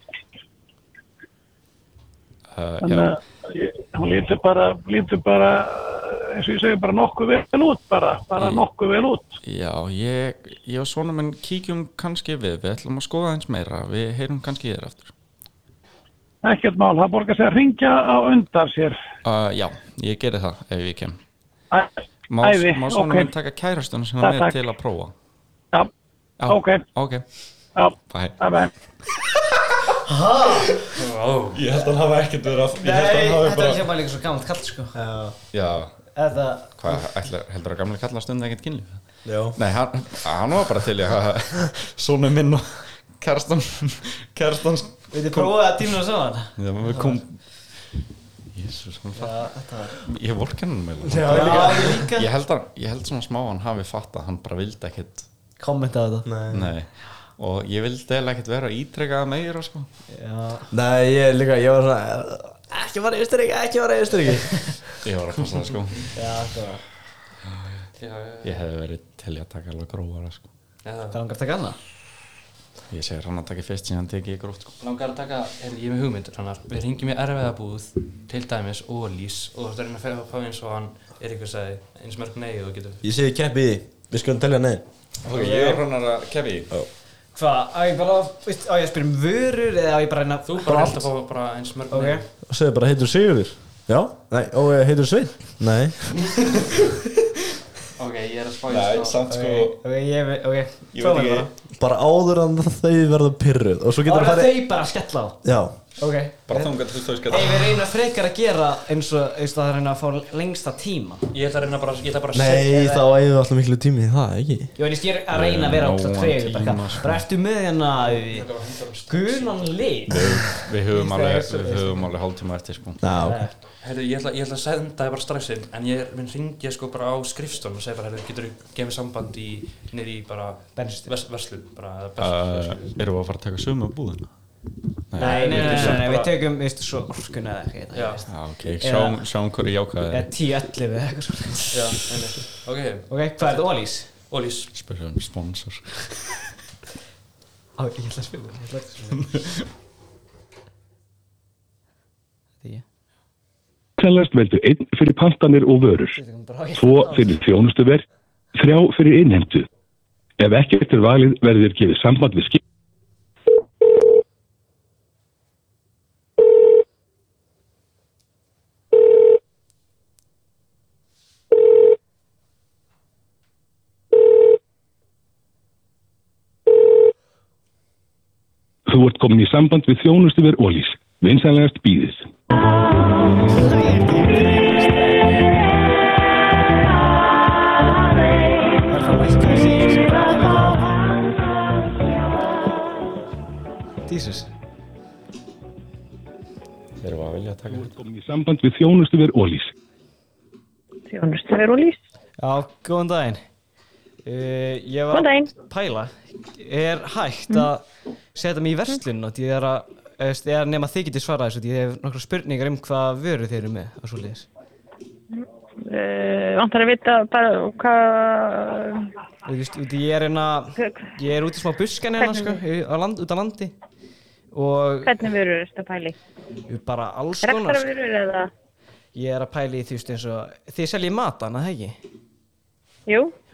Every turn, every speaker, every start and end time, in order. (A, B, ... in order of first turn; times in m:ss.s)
0:02.5-0:03.1 A
0:02.8-0:09.3 B
0:08.3-0:08.7 A
0:09.4-0:15.1 A
0:16.4-0:19.0 B
0:19.2-0:21.2 A
0:21.7-0:23.3 B
0:22.3-0:25.1 A
0:24.2-0:24.6 B
0:26.4-0:27.2 A
0:26.5-0:26.8 B
0:27.8-0:28.7 B
0:28.0-0:28.4 A
0:29.2-0:29.8 A
0:30.0-0:30.8 C
0:31.0-0:31.6 D
0:31.5-0:33.9 A
0:32.8-0:35.0 C
0:34.9-0:35.3 E
0:35.5-0:35.9 A
0:36.1-0:37.0 C
0:36.8-0:45.7 A
0:39.2-0:39.6 E
0:45.1-0:47.2 C
0:46.6-0:47.8 A
0:48.5-0:55.3 A
0:49.1-0:50.0 C
0:51.1-0:52.0 E
0:51.2-0:52.3 C
0:55.6-0:56.3 C
0:56.2-0:56.7 E
0:56.5-0:59.9 A
1:00.1-1:00.7 C
1:00.7-1:04.9 E
1:05.0-1:06.2 A
1:06.1-1:06.8 C
1:07.5-1:07.8 A
1:08.0-1:08.5 D
1:08.4-1:10.5 A
1:10.8-1:11.2 D
1:11.1-1:11.8 C
1:12.9-1:14.7 A
1:14.8-1:23.0 D
1:23.0-1:24.8 E
1:25.2-1:26.7 A
1:25.3-1:25.8 C
1:27.3-1:31.1 C
1:30.4-1:32.3 D
1:31.9-1:32.2 C
1:32.5-1:36.1 E
1:38.0-1:39.2 D
1:38.7-1:39.8 A
1:39.3-1:41.5 C
1:40.9-1:41.5 A
1:41.8-1:44.6 E
1:44.0-1:45.4 C
1:45.4-1:45.7 E
1:46.0-1:51.2 C
1:46.5-1:47.8 A
1:51.3-1:52.7 D
1:52.3-1:54.7 E
1:52.6-1:53.0 C
1:54.8-1:58.5 C
1:55.3-1:57.3 A
1:57.9-1:59.8 D
1:59.1-2:02.1 C
2:00.1-2:03.1 A
2:03.0-2:03.4 E
2:03.1-2:03.5 C
2:03.8-2:13.0 D
2:10.8-2:11.1 C
2:12.2-2:14.3 A
2:15.1-2:16.2 A
2:15.1-2:16.3 D
2:15.2-2:19.2 C
2:17.9-2:18.2 D
2:18.3-2:20.3 A
2:20.1-2:22.0 C
2:21.7-2:24.7 D
2:23.1-2:24.1 C
2:24.7-2:26.2 A
2:27.8-2:29.4 C
2:29.3-2:29.6 A
2:34.0-2:36.2 F
2:36.1-2:37.4 C
2:36.8-2:39.6 F
2:40.4-2:42.6 F
2:58.9-3:02.2 F
3:03.4-3:05.3 C
3:08.8-3:11.2 C
3:14.1-3:14.5 C
3:17.0-3:17.9 A
3:17.7-3:19.7 F
3:21.1-3:22.0 G
3:22.4-3:23.4 C
3:24.2-3:27.8 C
3:25.1-3:25.5 G
3:28.3-3:34.5 C
3:35.4-3:39.1 G
3:39.4-3:43.7 C
3:40.8-3:41.1 G
3:42.2-3:42.6 G
3:44.5-3:45.2 C
3:45.0-3:46.2 G
3:46.7-3:47.8 C
3:47.4-3:48.5 G
3:49.1-3:52.0 C
3:53.1-3:53.3 G